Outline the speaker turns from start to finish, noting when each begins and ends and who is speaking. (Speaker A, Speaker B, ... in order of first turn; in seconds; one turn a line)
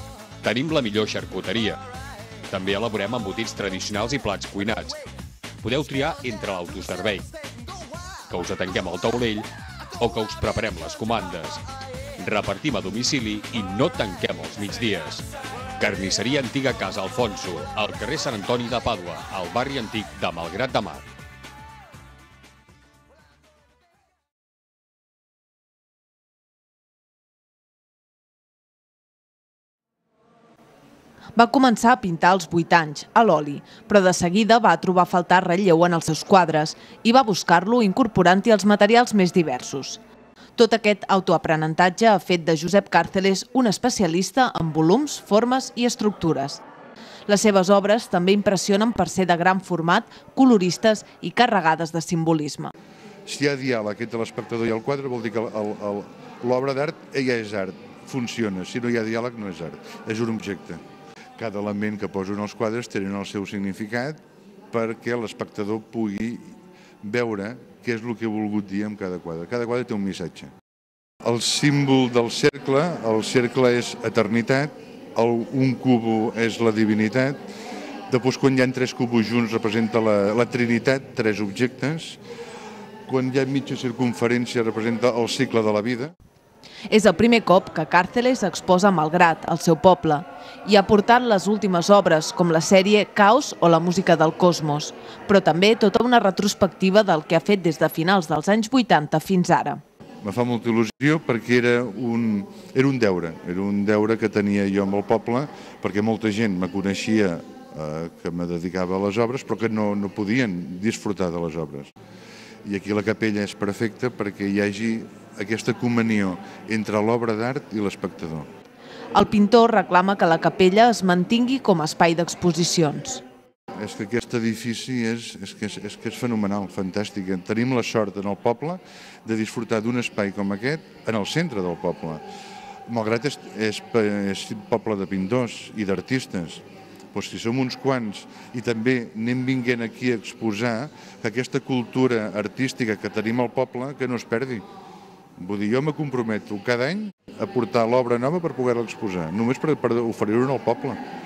Speaker A: 0.4-1.8
Speaker A: 2.5-5.0
Speaker A: 5.6-7.3
Speaker A: 8.3-11.6
Speaker A: 12.2-15.2
Speaker A: 15.8-21.1
Speaker B: 31.3-40.0
Speaker B: 40.5-46.6
Speaker B: 47.3-52.7
Speaker C: 53.2-60.8
Speaker C: 61.4-64.2
Speaker C: 64.7-70.5
Speaker C: 71.2-77.4
Speaker C: 78.1-82.2
Speaker C: 83.1-86.1
Speaker B: 86.9-99.8
Speaker C: 100.2-111.9
Speaker C: 112.6-118.5
Speaker B: 119.1-123.2
Speaker C: 123.8-132.2
Speaker C: 132.9-144.6
Speaker C: 145.4-151.0